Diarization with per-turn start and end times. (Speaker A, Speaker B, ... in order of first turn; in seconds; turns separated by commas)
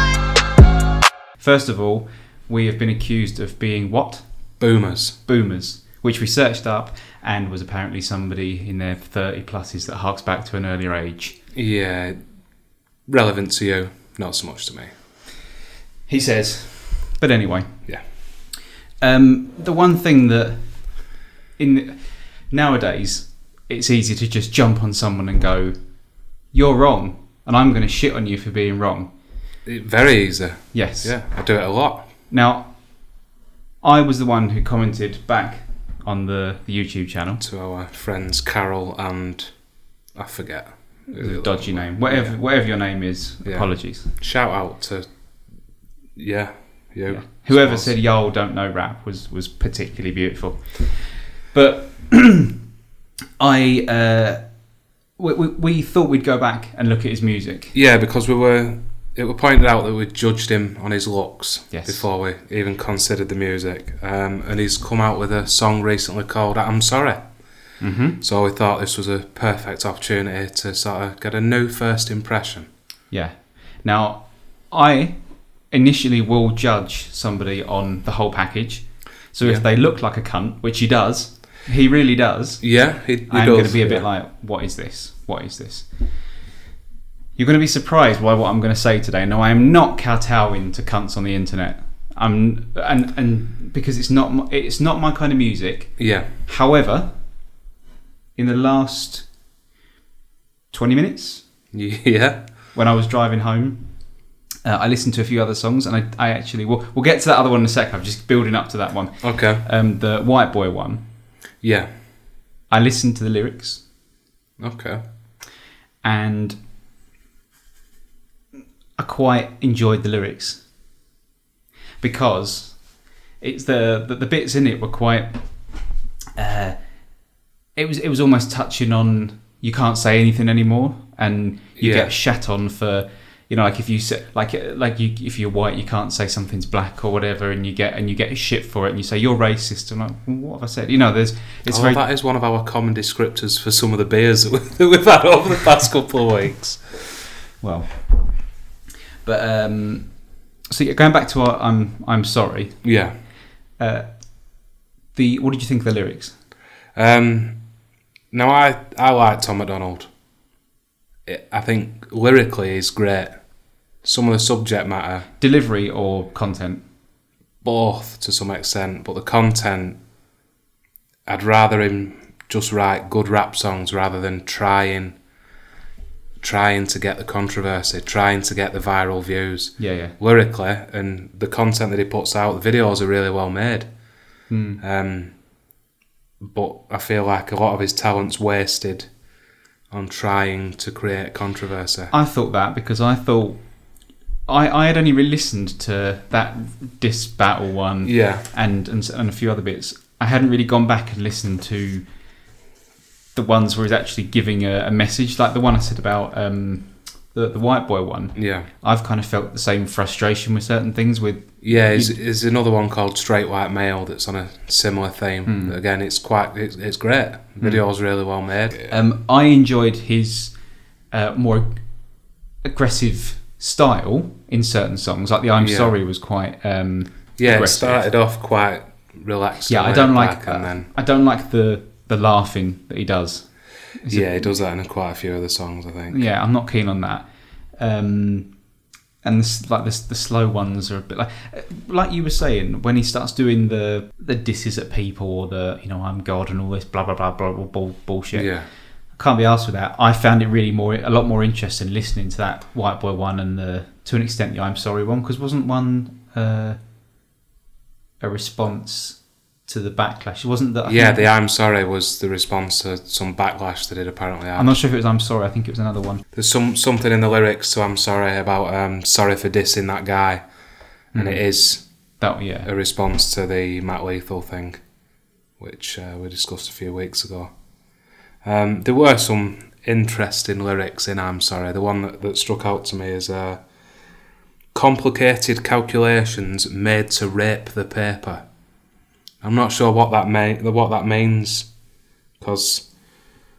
Speaker A: 1.4-4.2, Speaker B: 4.6-5.2, Speaker A: 5.3-11.4, Speaker B: 11.6-12.2, Speaker B: 13.1-14.9, Speaker A: 16.1-17.7, Speaker A: 19.0-20.8, Speaker A: 21.6-22.0, Speaker A: 22.5-25.8, Speaker A: 26.5-29.1, Speaker B: 29.7-32.1, Speaker A: 30.7-31.1, Speaker A: 32.3-32.7, Speaker A: 33.8-37.4, Speaker B: 37.4-39.5, Speaker B: 40.2-42.4, Speaker A: 41.1-44.1, Speaker B: 43.5-45.1, Speaker B: 46.2-47.9, Speaker A: 47.1-52.6, Speaker A: 53.4-54.4, Speaker A: 55.2-57.8, Speaker B: 57.7-67.2, Speaker A: 61.7-62.0, Speaker A: 67.8-68.2, Speaker B: 68.2-72.7, Speaker A: 73.1-75.2, Speaker A: 75.7-82.6, Speaker B: 82.6-84.1, Speaker A: 83.3-85.9, Speaker A: 87.4-97.1, Speaker B: 96.0-96.3, Speaker A: 98.4-99.3, Speaker A: 100.7-101.4, Speaker B: 101.7-102.4, Speaker A: 102.7-103.8, Speaker A: 104.7-111.0, Speaker B: 109.2-109.6, Speaker B: 111.6-111.9, Speaker A: 112.7-113.8, Speaker B: 114.6-115.0, Speaker A: 116.0-116.6, Speaker A: 119.0-120.6, Speaker A: 122.0-122.8, Speaker A: 123.4-125.4, Speaker A: 126.4-126.8, Speaker A: 127.8-142.0, Speaker B: 131.8-132.1, Speaker B: 141.7-147.0, Speaker A: 147.6-147.9, Speaker A: 149.2-150.1, Speaker A: 150.7-152.8, Speaker B: 152.8-153.2, Speaker A: 153.8-154.1, Speaker A: 155.2-156.3, Speaker B: 157.0-157.6, Speaker B: 158.3-160.1, Speaker B: 161.3-163.4, Speaker B: 164.0-165.3, Speaker A: 165.4-166.8, Speaker B: 167.6-170.0, Speaker B: 171.3-175.2, Speaker B: 176.4-183.9, Speaker A: 179.8-180.1, Speaker A: 184.5-184.8, Speaker B: 184.8-185.3, Speaker B: 186.4-189.1, Speaker B: 189.9-192.1, Speaker A: 192.1-193.6, Speaker A: 194.5-202.0, Speaker B: 198.1-198.5, Speaker A: 203.4-212.2, Speaker B: 208.4-208.7, Speaker B: 211.6-218.9, Speaker A: 215.5-215.8, Speaker A: 218.9-220.5, Speaker A: 221.1-221.8, Speaker A: 222.7-228.1, Speaker B: 225.6-225.9, Speaker B: 227.4-230.9, Speaker A: 229.7-233.5, Speaker A: 234.0-234.6, Speaker B: 234.1-236.2, Speaker A: 236.1-237.3, Speaker A: 237.8-238.5, Speaker A: 239.2-248.5, Speaker B: 248.3-248.7, Speaker A: 249.2-256.8, Speaker A: 258.2-261.3, Speaker B: 260.9-264.7, Speaker A: 264.6-266.2, Speaker B: 266.3-270.4, Speaker A: 271.1-271.4, Speaker B: 271.1-271.8, Speaker A: 272.2-272.7, Speaker B: 272.6-274.8, Speaker B: 275.6-277.5, Speaker B: 278.4-283.6, Speaker B: 284.7-288.4, Speaker B: 289.4-291.7, Speaker B: 292.4-292.9